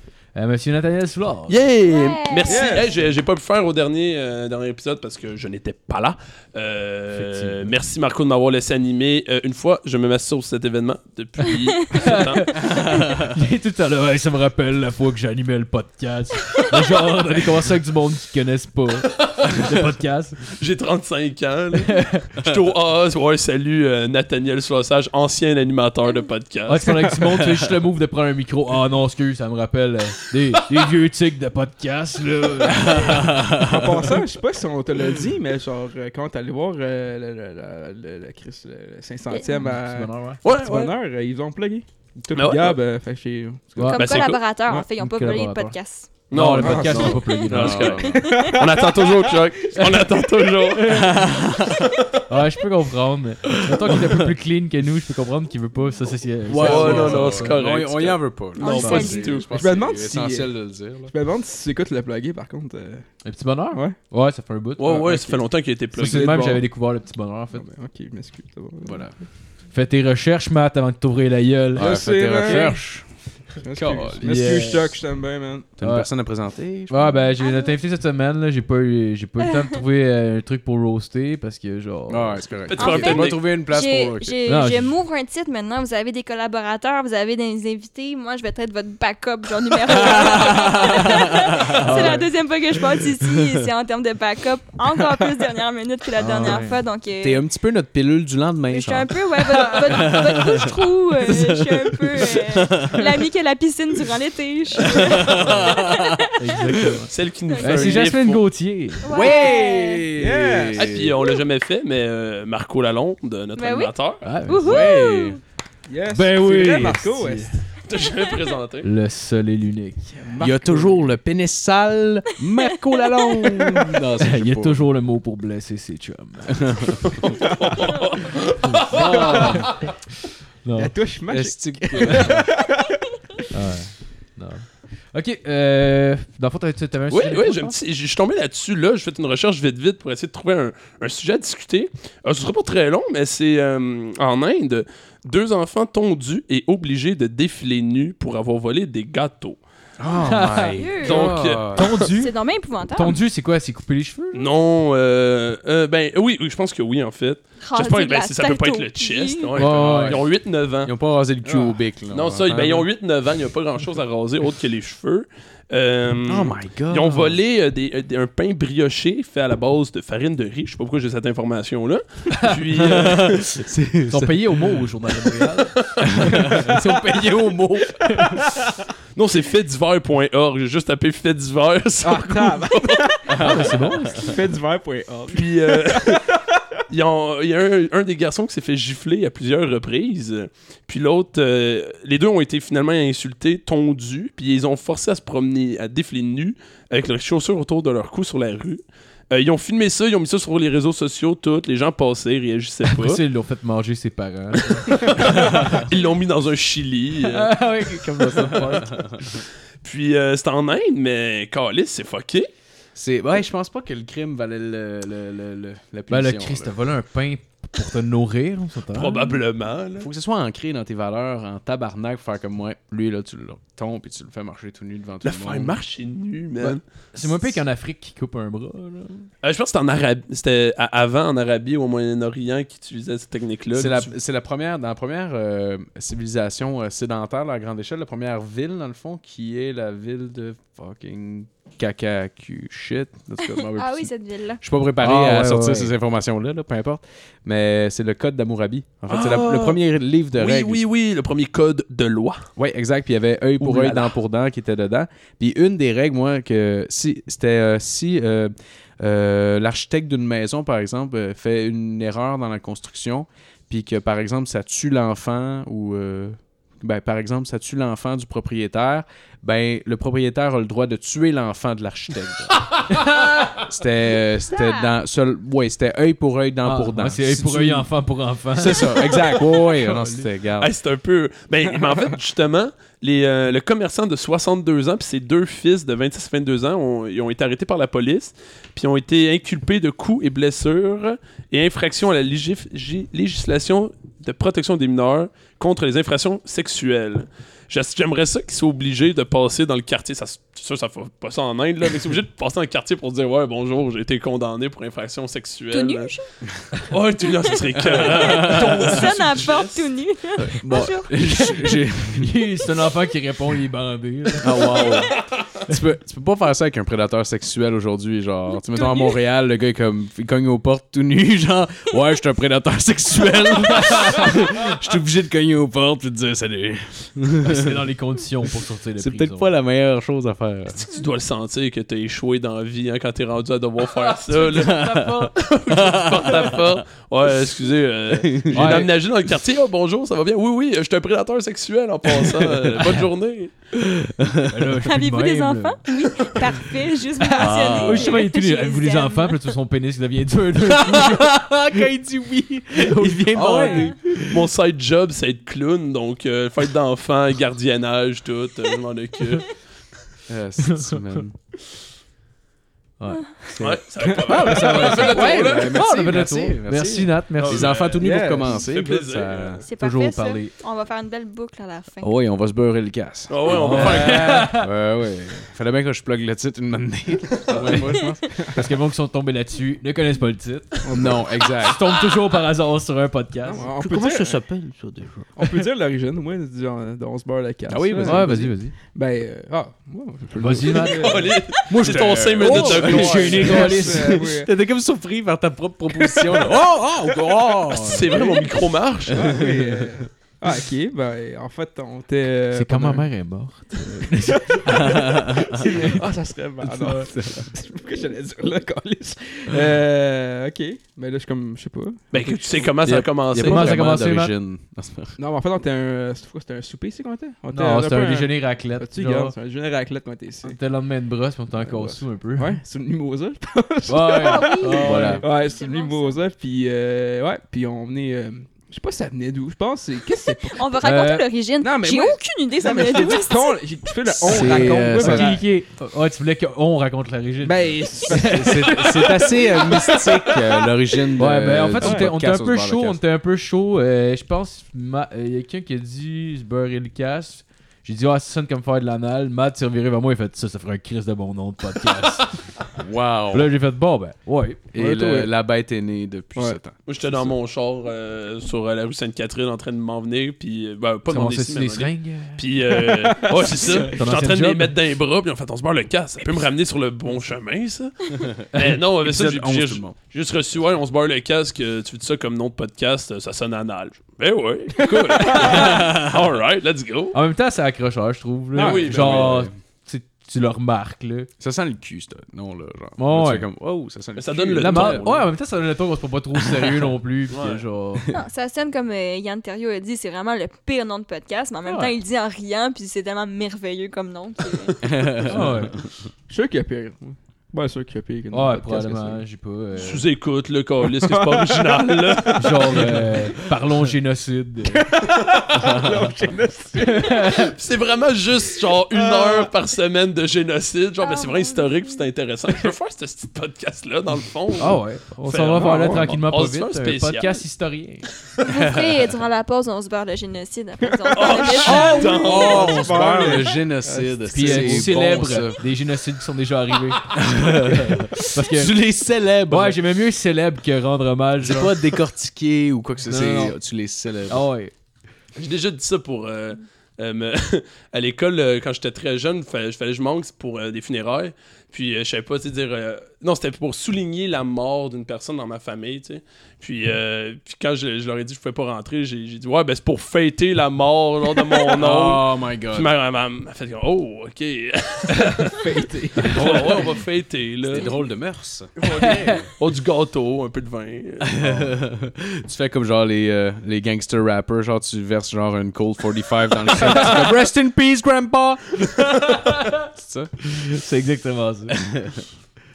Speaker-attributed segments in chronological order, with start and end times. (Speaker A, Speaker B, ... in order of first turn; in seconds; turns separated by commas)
Speaker A: 0.3-1.6, Speaker B: 1.5-12.6, Speaker C: 1.9-2.6, Speaker D: 2.5-3.0, Speaker A: 7.1-7.7, Speaker A: 11.9-20.4, Speaker E: 12.6-13.3, Speaker B: 19.1-19.5, Speaker B: 20.5-27.1, Speaker A: 21.9-22.3, Speaker A: 26.7-33.4, Speaker E: 32.6-34.0, Speaker D: 33.5-44.1, Speaker C: 39.3-39.5, Speaker A: 39.5-40.4, Speaker B: 40.4-40.9, Speaker B: 42.3-42.8, Speaker A: 43.8-44.1, Speaker C: 43.8-46.1, Speaker B: 44.0-44.4, Speaker A: 45.0-48.0, Speaker B: 46.3-51.1, Speaker D: 46.6-47.1, Speaker C: 46.9-47.4, Speaker E: 47.5-48.3, Speaker C: 48.1-48.5, Speaker D: 48.1-49.3, Speaker A: 49.8-50.0, Speaker A: 50.8-51.1, Speaker E: 50.9-51.8, Speaker B: 51.8-52.1, Speaker A: 52.3-57.6, Speaker E: 53.7-54.1, Speaker E: 56.5-61.1, Speaker B: 56.5-59.5, Speaker C: 58.6-59.5, Speaker A: 58.6-59.1, Speaker D: 59.5-63.1, Speaker A: 63.2-65.2, Speaker D: 63.7-64.0, Speaker B: 64.8-66.6, Speaker D: 64.9-65.4, Speaker A: 65.9-67.6, Speaker D: 67.5-69.1, Speaker E: 68.8-69.1, Speaker A: 69.7-72.6, Speaker E: 71.8-73.0, Speaker D: 71.8-72.8, Speaker D: 73.6-75.7, Speaker E: 73.7-74.7, Speaker A: 74.2-74.9, Speaker E: 75.8-77.2, Speaker A: 75.8-76.1, Speaker A: 76.9-82.4, Speaker C: 77.4-77.8, Speaker C: 79.4-79.7, Speaker E: 82.1-84.4, Speaker B: 82.7-83.4, Speaker C: 82.7-97.4, Speaker A: 84.5-84.9, Speaker E: 89.9-91.3, Speaker A: 91.8-92.3, Speaker A: 96.2-96.8, Speaker E: 97.2-103.1, Speaker C: 98.7-106.3, Speaker E: 104.8-106.2, Speaker A: 106.3-109.1, Speaker B: 107.1-108.4, Speaker C: 107.5-108.0, Speaker C: 109.0-110.2, Speaker E: 109.1-111.1, Speaker D: 110.2-110.8, Speaker B: 110.7-114.2, Speaker C: 113.5-113.9, Speaker A: 114.2-115.0, Speaker C: 114.5-115.4, Speaker E: 114.6-115.4, Speaker D: 115.9-117.6, Speaker A: 116.1-117.5, Speaker B: 117.9-118.9, Speaker A: 118.8-120.2, Speaker D: 120.2-120.9, Speaker E: 120.4-124.8, Speaker C: 123.0-123.7, Speaker A: 124.2-126.7, Speaker E: 126.6-127.0, Speaker B: 127.0-129.7, Speaker D: 127.4-127.7, Speaker E: 128.9-129.7, Speaker A: 128.9-129.7, Speaker D: 129.0-129.6, Speaker A: 130.6-130.9, Speaker D: 130.8-133.4, Speaker E: 131.3-132.5, Speaker A: 133.5-137.7, Speaker B: 137.1-149.6, Speaker E: 150.0-151.8, Speaker A: 150.2-150.8, Speaker C: 150.7-151.4, Speaker B: 151.0-152.1, Speaker A: 151.7-152.4, Speaker C: 152.1-153.2, Speaker A: 152.9-154.4, Speaker B: 154.3-160.9, Speaker C: 157.6-159.5, Speaker A: 159.6-160.2, Speaker E: 159.6-160.3, Speaker E: 160.8-162.9, Speaker D: 161.4-161.7, Speaker B: 162.1-173.5, Speaker E: 166.2-167.3, Speaker A: 172.3-173.0, Speaker E: 172.8-174.8, Speaker A: 174.1-178.5, Speaker B: 175.8-176.1, Speaker E: 176.0-177.5, Speaker B: 179.1-183.1, Speaker D: 182.0-186.4, Speaker E: 183.3-184.1, Speaker A: 183.4-184.3, Speaker B: 185.3-186.3, Speaker B: 186.9-203.2, Speaker A: 202.9-205.8, Speaker B: 204.7-207.5, Speaker A: 207.2-209.0, Speaker E: 208.2-209.4, Speaker B: 209.8-212.5, Speaker E: 212.9-216.7, Speaker A: 216.1-219.4, Speaker B: 218.9-220.1, Speaker E: 220.0-225.7, Speaker B: 225.2-226.8, Speaker A: 226.6-229.3, Speaker B: 229.4-234.1, Speaker E: 233.7-250.8, Speaker C: 243.5-244.6, Speaker A: 245.0-245.9, Speaker B: 249.1-249.8, Speaker B: 250.3-252.5, Speaker E: 252.6-272.7, Speaker A: 253.6-254.1, Speaker A: 272.9-273.5, Speaker E: 273.5-277.9, Speaker A: 276.6-280.2, Speaker E: 278.5-280.7, Speaker B: 280.6-306.1, Speaker C: 305.7-306.2, Speaker B: 306.9-309.9, Speaker E: 307.8-309.0, Speaker C: 307.9-311.1, Speaker E: 310.6-312.3, Speaker A: 311.3-315.0, Speaker E: 314.4-327.9, Speaker A: 323.9-324.2, Speaker A: 327.4-329.5, Speaker E: 329.0-330.8, Speaker B: 330.7-343.5, Speaker A: 334.0-335.3, Speaker E: 334.5-336.8, Speaker E: 338.1-338.9, Speaker A: 338.5-338.9, Speaker E: 342.1-342.6, Speaker E: 343.8-344.5, Speaker A: 344.5-345.8, Speaker C: 344.8-349.5, Speaker A: 347.2-351.9, Speaker E: 347.4-348.2, Speaker E: 350.8-354.0, Speaker A: 352.7-354.1, Speaker C: 353.4-353.9, Speaker B: 354.2-359.5, Speaker E: 360.3-361.4, Speaker A: 360.7-361.2, Speaker A: 363.0-367.7, Speaker B: 363.6-365.8, Speaker D: 364.2-364.5, Speaker E: 364.4-369.6, Speaker B: 367.4-369.6, Speaker D: 368.0-368.6, Speaker C: 369.6-372.1, Speaker A: 369.8-370.5, Speaker E: 372.0-378.3, Speaker B: 373.3-374.5, Speaker A: 373.5-374.7, Speaker A: 378.5-380.8, Speaker D: 380.8-381.2, Speaker E: 380.9-381.8, Speaker A: 381.6-385.5, Speaker D: 383.4-384.4, Speaker E: 383.8-384.9, Speaker D: 385.4-391.9, Speaker E: 387.7-388.5, Speaker A: 388.0-388.7, Speaker A: 390.4-391.2, Speaker B: 390.7-393.6, Speaker E: 391.7-398.2, Speaker A: 391.8-394.3, Speaker D: 392.4-394.5, Speaker B: 397.7-399.4, Speaker D: 398.1-398.5, Speaker D: 399.1-403.1, Speaker E: 399.1-400.0, Speaker A: 402.5-404.9, Speaker D: 404.5-412.7, Speaker E: 404.6-405.6, Speaker A: 405.6-406.0, Speaker E: 406.6-407.5, Speaker B: 412.1-413.7, Speaker E: 412.8-415.2, Speaker A: 413.4-414.3, Speaker D: 415.2-420.6, Speaker A: 417.5-419.3, Speaker A: 420.4-422.6, Speaker D: 421.6-430.9, Speaker A: 423.9-425.2, Speaker C: 424.1-426.2, Speaker E: 424.8-425.2, Speaker C: 430.1-433.6, Speaker A: 430.8-431.3, Speaker D: 431.6-435.4, Speaker E: 434.1-435.3, Speaker A: 434.3-439.0, Speaker D: 437.4-440.1, Speaker E: 438.1-443.0, Speaker A: 441.2-452.4, Speaker D: 441.8-442.1, Speaker E: 452.8-453.5, Speaker A: 453.3-455.3, Speaker E: 454.7-456.8, Speaker B: 456.9-477.2, Speaker A: 461.1-462.4, Speaker D: 462.7-463.9, Speaker A: 463.5-464.8, Speaker E: 468.6-470.0, Speaker A: 475.2-475.8, Speaker E: 475.6-476.1, Speaker A: 477.1-481.3, Speaker B: 478.6-479.4, Speaker E: 478.6-479.5, Speaker E: 481.4-485.3, Speaker A: 483.0-483.5, Speaker B: 484.1-485.1, Speaker A: 484.6-488.1, Speaker E: 486.4-486.9, Speaker B: 487.3-487.6, Speaker C: 488.1-494.9, Speaker A: 491.6-491.9, Speaker E: 494.8-495.9, Speaker A: 495.2-495.8, Speaker D: 496.3-499.2, Speaker A: 498.3-500.0, Speaker B: 499.8-502.9, Speaker D: 500.9-502.9, Speaker A: 502.4-504.8, Speaker D: 504.7-507.4, Speaker E: 505.6-506.0, Speaker A: 506.8-507.5, Speaker B: 507.4-517.4, Speaker D: 508.9-509.5, Speaker C: 511.0-512.0, Speaker A: 514.6-518.1, Speaker E: 515.7-516.0, Speaker C: 518.4-522.5, Speaker E: 518.5-519.1, Speaker D: 521.0-524.9, Speaker B: 521.1-522.9, Speaker E: 521.7-525.6, Speaker A: 524.3-528.8, Speaker E: 527.1-529.8, Speaker A: 529.5-531.8, Speaker E: 531.4-534.5, Speaker A: 533.1-533.6, Speaker A: 534.3-534.7, Speaker B: 535.4-555.7, Speaker E: 551.7-552.9, Speaker D: 555.4-556.9, Speaker B: 556.2-557.9, Speaker E: 557.7-559.4, Speaker B: 558.8-561.3, Speaker E: 561.2-570.5, Speaker B: 566.9-567.2, Speaker A: 569.2-569.7, Speaker A: 570.6-571.8, Speaker E: 571.7-572.2